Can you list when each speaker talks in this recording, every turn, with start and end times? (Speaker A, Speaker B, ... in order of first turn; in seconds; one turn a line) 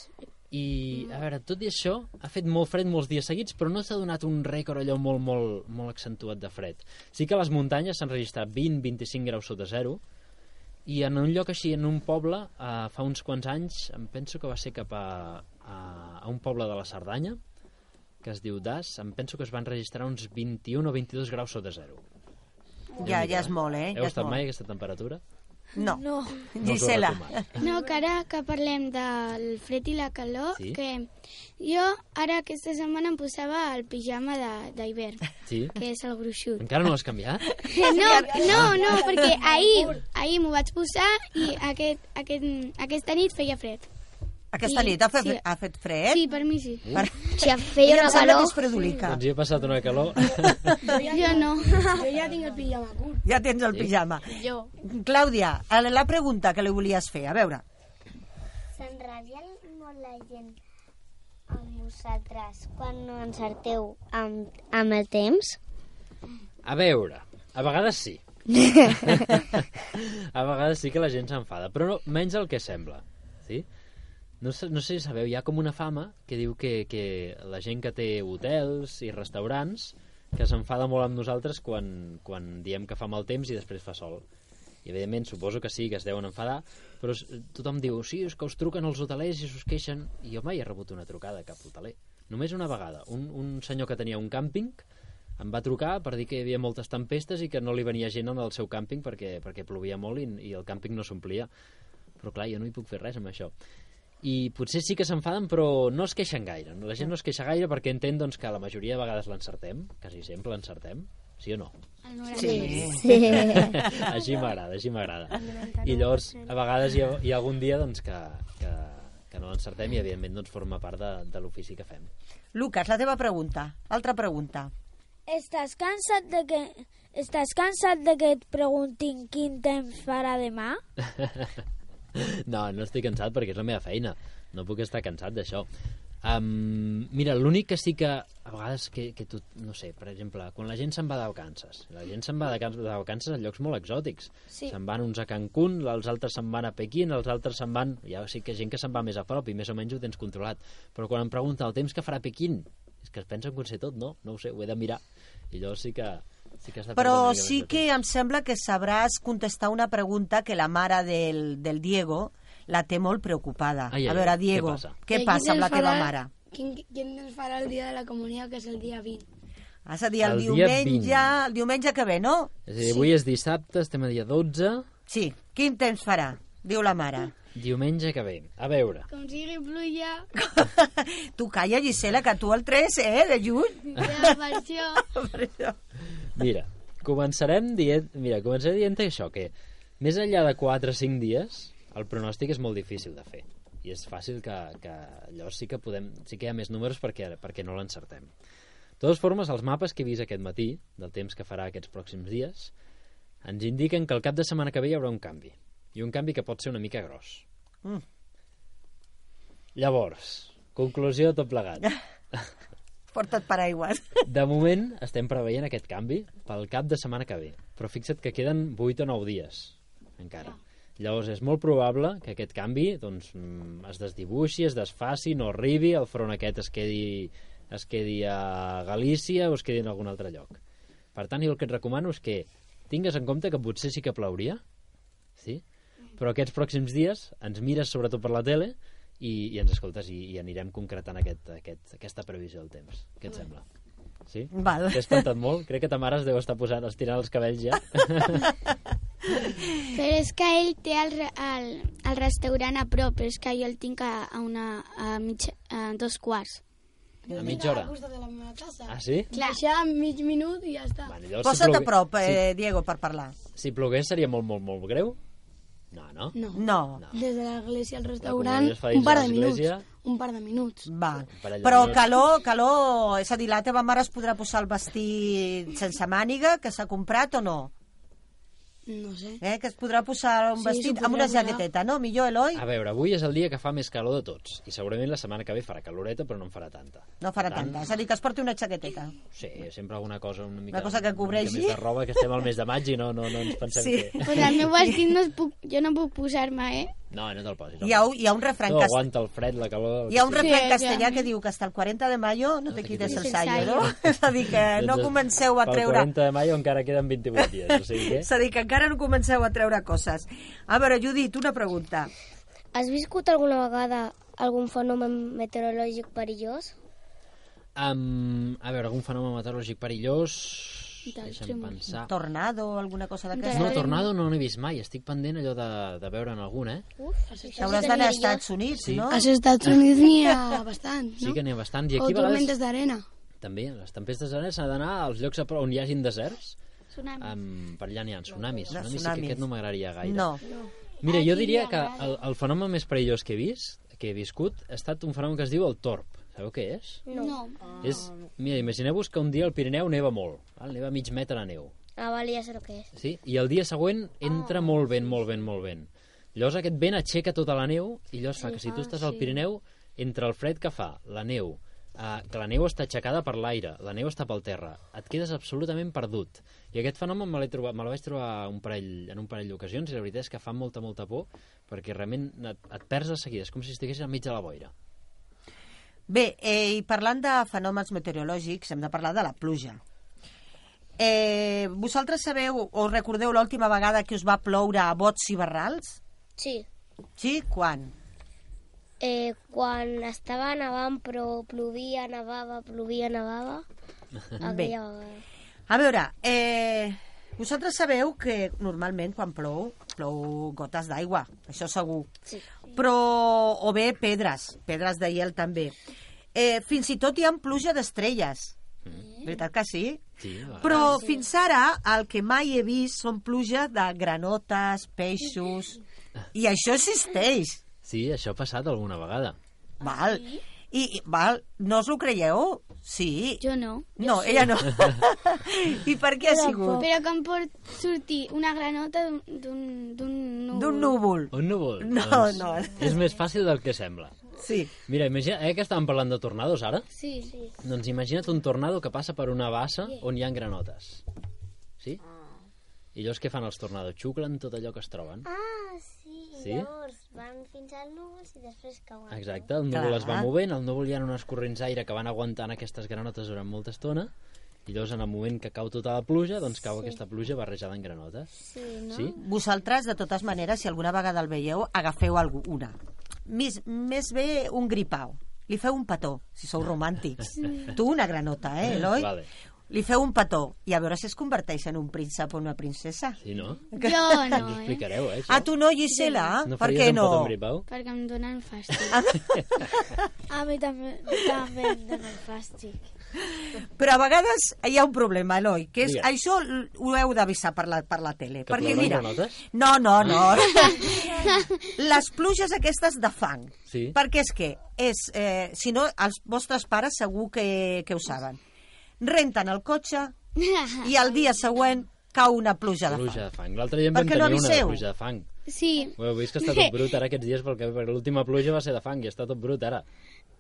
Speaker A: 0.5-10.0
Speaker A: 10.8-17.4
Speaker A: 18.2-22.0
Speaker B: 23.0-24.4
Speaker A: 23.0-25.2
Speaker B: 25.8-26.0
Speaker C: 25.8-26.4
Speaker B: 26.5-27.4
Speaker A: 26.6-27.5
Speaker D: 27.6-36.7
Speaker A: 30.5-30.8
Speaker A: 35.5-35.7
Speaker A: 36.6-37.6
Speaker D: 37.7-43.9
Speaker B: 37.7-39.2
Speaker E: 37.9-40.0
Speaker A: 38.4-38.8
Speaker B: 44.5-46.2
Speaker D: 44.6-45.4
Speaker D: 46.1-46.9
Speaker B: 46.9-49.2
Speaker F: 47.4-48.6
Speaker A: 49.0-50.8
Speaker B: 50.4-50.9
Speaker E: 50.8-53.2
Speaker D: 50.9-52.0
Speaker B: 53.2-57.6
Speaker D: 54.3-54.7
Speaker F: 58.8-60.5
Speaker F: 61.5-65.6
Speaker A: 66.6-68.2
Speaker A: 68.9-73.7
Speaker A: 74.4-84.2
Speaker A: 84.8-94.8
Speaker A: 95.4-101.5
Speaker A: 102.2-103.5
Speaker A: 104.2-111.7
Speaker D: 112.0-113.0
Speaker B: 112.3-113.9
Speaker F: 112.4-113.7
Speaker A: 112.5-122.1
Speaker B: 122.5-124.7
Speaker C: 125.3-130.8
Speaker A: 131.0-131.5
Speaker A: 132.1-135.7
Speaker A: 136.2-157.8
Speaker B: 156.9-166.3
Speaker A: 163.9-165.0
Speaker E: 165.1-169.2
Speaker B: 169.8-172.5
Speaker A: 170.2-171.3
Speaker A: 172.7-174.9
Speaker B: 175.1-177.3
Speaker A: 177.5-179.1
Speaker D: 179.1-180.3
Speaker B: 180.3-184.3
Speaker D: 183.9-185.0
Speaker B: 185.0-185.8
Speaker A: 186.3-198.3
Speaker A: 199.0-202.7
Speaker A: 203.4-207.4
Speaker A: 209.8-212.5
Speaker B: 213.1-214.2
Speaker A: 214.2-230.6
Speaker A: 231.1-234.6
Speaker A: 235.4-235.6
Speaker A: 236.2-243.6
Speaker A: 244.3-248.5
Speaker B: 244.5-245.2
Speaker D: 249.9-256.6
Speaker E: 257.3-261.1
Speaker A: 257.3-257.9
Speaker A: 258.9-259.3
Speaker D: 259.3-259.6
Speaker A: 261.0-262.4
Speaker B: 261.4-263.3
Speaker A: 263.6-265.2
Speaker A: 265.9-266.4
Speaker E: 266.3-270.9
Speaker B: 266.5-267.0
Speaker A: 266.9-267.2
Speaker A: 268.2-269.9
Speaker B: 270.9-277.7
Speaker A: 271.4-272.1
Speaker E: 278.9-279.4
Speaker B: 279.4-282.6
Speaker E: 280.6-281.6
Speaker A: 282.5-287.8
Speaker B: 287.2-289.1
Speaker A: 289.3-294.5
Speaker B: 290.7-291.8
Speaker B: 293.6-295.0
Speaker D: 294.2-296.9
Speaker A: 297.1-298.0
Speaker B: 297.8-299.0
Speaker A: 298.6-300.5
Speaker B: 300.1-306.1
Speaker D: 300.3-301.3
Speaker A: 302.7-303.9
Speaker D: 303.1-303.9
Speaker A: 304.7-308.3
Speaker B: 308.1-312.1
Speaker F: 312.7-316.7
Speaker A: 317.8-322.1
Speaker D: 321.1-321.9
Speaker B: 322.1-323.9
Speaker D: 323.4-324.1
Speaker A: 323.5-326.8
Speaker F: 327.0-328.4
Speaker E: 327.3-328.2
Speaker B: 327.6-329.3
Speaker A: 328.8-329.1
Speaker E: 329.1-331.4
Speaker A: 331.2-332.6
Speaker E: 331.9-333.0
Speaker A: 333.4-336.6
Speaker D: 336.9-337.4
Speaker A: 337.2-340.3
Speaker B: 338.7-339.4
Speaker B: 340.0-340.4
Speaker A: 341.0-347.0
Speaker D: 341.0-342.2
Speaker F: 347.1-347.4
Speaker D: 347.1-348.0
Speaker A: 347.8-351.7
Speaker F: 352.0-352.9
Speaker A: 352.9-374.7
Speaker B: 376.1-379.8
Speaker B: 381.0-386.0
Speaker F: 386.4-386.6
Speaker B: 387.2-387.9
Speaker F: 389.0-393.6
Speaker B: 394.4-394.7
Speaker F: 394.4-395.2
Speaker B: 395.7-402.1
Speaker B: 402.7-405.7
Speaker B: 406.3-408.6
Speaker A: 408.8-409.1
Speaker B: 409.2-410.1
Speaker A: 410.2-411.0
Speaker B: 410.6-415.8
Speaker B: 416.3-417.6
Speaker A: 417.8-419.4
Speaker D: 419.8-420.4
Speaker B: 419.8-423.4
Speaker D: 423.4-424.6
Speaker B: 424.0-426.9
Speaker C: 426.3-426.8
Speaker D: 426.7-431.0
Speaker B: 430.5-433.0
Speaker A: 431.3-434.1
Speaker B: 434.4-434.7
Speaker A: 434.9-436.9
Speaker D: 436.9-437.3
Speaker A: 437.6-441.0
Speaker A: 442.9-445.3
Speaker F: 445.3-449.5
Speaker A: 446.4-446.7
Speaker A: 449.1-454.1
Speaker B: 449.7-450.3
Speaker A: 454.6-458.3
Speaker F: 458.4-459.1
Speaker A: 458.9-459.1
Speaker B: 459.1-462.7
Speaker B: 463.2-469.1
Speaker A: 468.6-469.3
Speaker B: 469.7-473.2
Speaker A: 473.2-473.7
Speaker B: 473.8-474.4
Speaker D: 473.8-474.9
Speaker A: 474.3-475.5
Speaker B: 475.3-477.3
Speaker D: 475.9-476.4
Speaker A: 476.4-477.6
Speaker D: 477.7-479.0
Speaker B: 478.9-479.8
Speaker C: 480.3-482.8
Speaker B: 483.6-498.4
Speaker A: 488.5-489.4
Speaker A: 493.7-493.9
Speaker B: 499.0-500.1
Speaker D: 500.4-500.9
Speaker B: 500.8-503.2
Speaker A: 502.9-505.3
Speaker B: 503.9-504.8
Speaker D: 505.5-506.9
Speaker A: 506.0-509.8